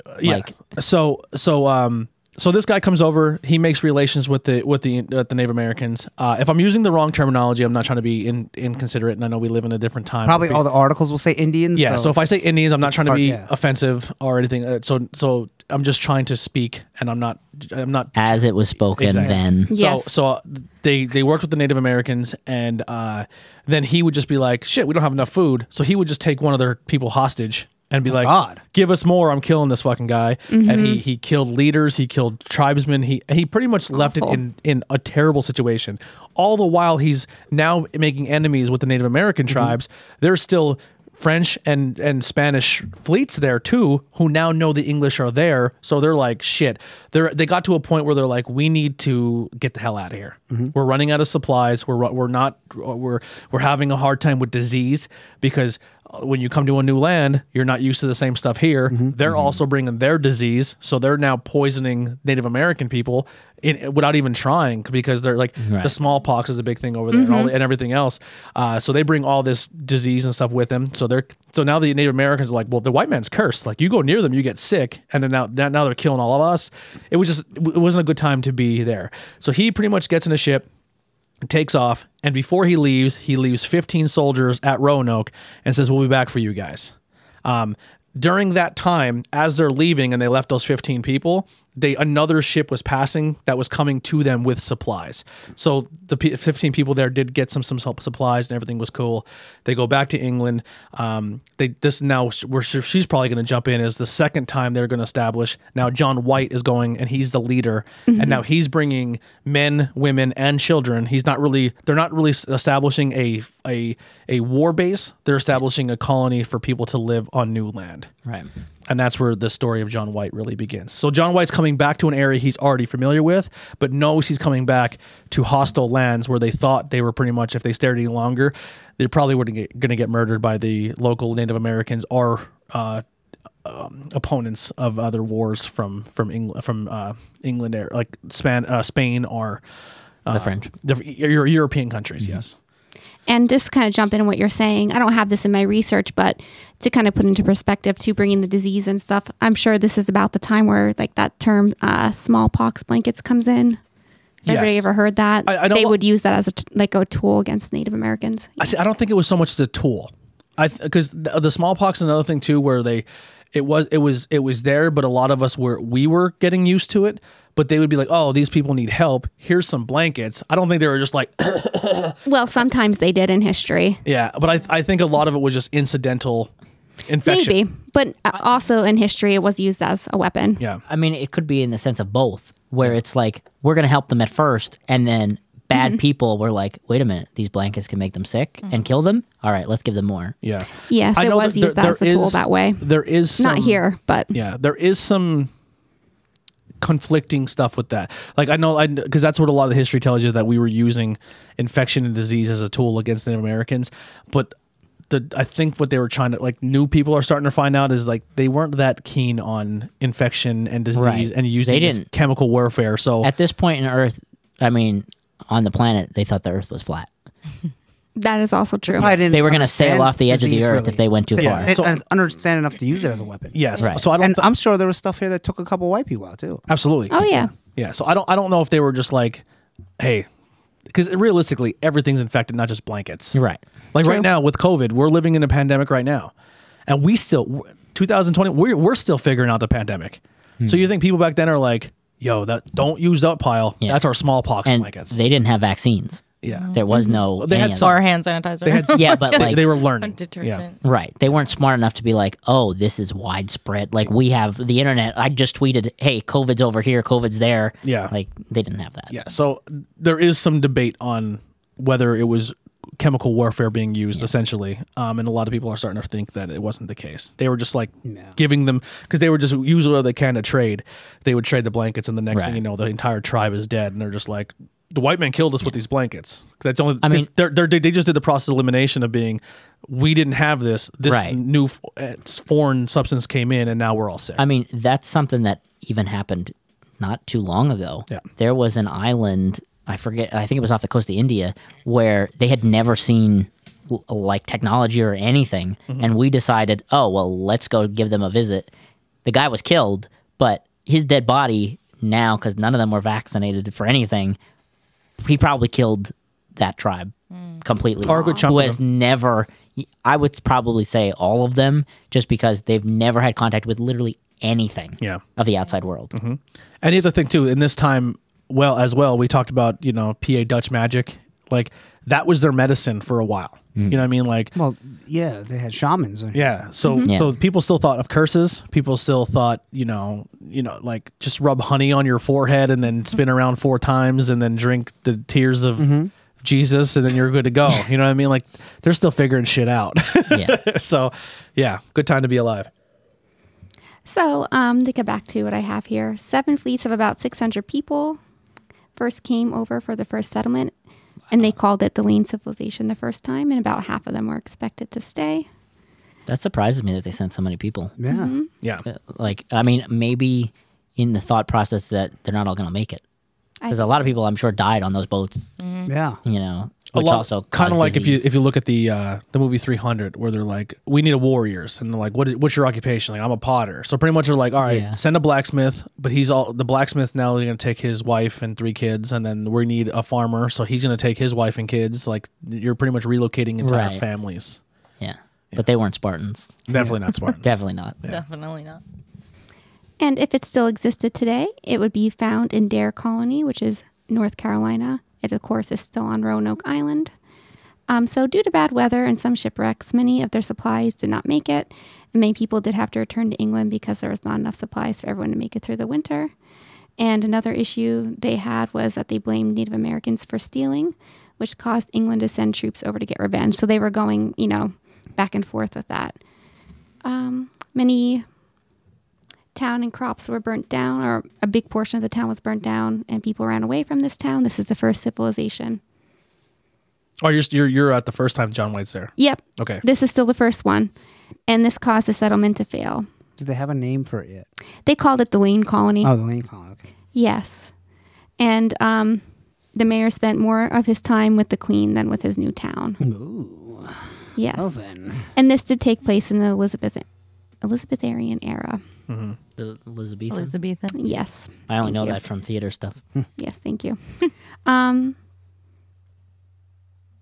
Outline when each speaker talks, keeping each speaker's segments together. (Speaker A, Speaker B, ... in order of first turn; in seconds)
Speaker A: 0.1-10.6, 11.8-18.4, 18.9-80.7, 81.5-86.9, 87.5-118.1, 118.9-133.0, 133.7-139.6, 140.2-142.5, 154.4-154.9, 155.5-156.0, 158.6-172.2, 174.1-176.5, 177.1-177.6, 190.4-193.8, 194.3-195.5, 196.8-204.6, 205.1-213.3, 221.4-222.0, 223.5-224.5, 226.7-229.4, 230.0-230.3, 230.9-233.4, 233.9-236.3, 236.9-245.2, 246.4-246.8, 247.4-248.1, 248.7-250.7, 257.8-258.1, 259.1-284.4, 308.0-308.8, 316.1-324.5, 326.3-342.7, 366.9-384.6, 386.7-388.2, 427.2-429.8, 449.1-449.4
Speaker B: 0.2-0.5, 18.2-19.7, 59.2-59.6, 65.6-66.0, 140.3-140.7, 180.9-190.3, 210.9-212.1, 213.2-217.1, 219.3-221.7, 223.8-224.1, 233.3-233.6, 240.6-240.9, 244.7-247.9, 248.9-249.7, 250.8-259.1, 272.3-272.6, 277.0-277.3, 281.0-281.4, 284.4-298.7, 299.2-304.4, 305.2-316.1, 323.8-324.0, 327.1-327.3, 340.3-340.6, 356.3-357.9, 358.9-363.0, 363.7-365.5, 366.2-368.2, 374.6-375.0, 383.6-384.0, 385.0-386.5, 387.4-388.0, 449.6-450.6, 451.7-453.0
Speaker C: 10.2-12.2, 12.8-13.5, 28.1-28.6, 218.9-226.6, 268.1-268.4, 324.6-326.4, 335.8-336.1, 358.0-358.4, 365.9-366.2, 433.4-434.5, 436.0-436.8, 443.0-445.3
Speaker D: 19.7-20.1, 30.5-31.0, 33.9-34.4, 67.1-67.5, 108.1-108.4, 143.3-153.8, 154.4-158.7, 172.3-174.0, 177.2-180.6, 185.7-186.0, 190.9-192.9, 193.4-194.3, 218.2-219.2, 227.1-227.5, 234.0-234.3, 308.1-308.5, 344.1-348.2, 349.0-350.7, 351.3-355.5, 358.1-358.5, 363.6-364.1, 390.0-397.1, 397.9-406.3, 407.0-416.2, 417.0-418.2, 419.6-425.8, 429.2-430.9, 431.5-433.1, 434.9-436.1, 437.1-437.7, 438.4-439.2, 439.7-443.0, 444.4-447.1, 447.6-448.8, 450.9-452.2, 453.4-454.0, 454.7-455.2
Speaker E: 246.5-247.1, 247.8-250.8, 365.6-365.9, 388.1-388.8, 450.3-451.0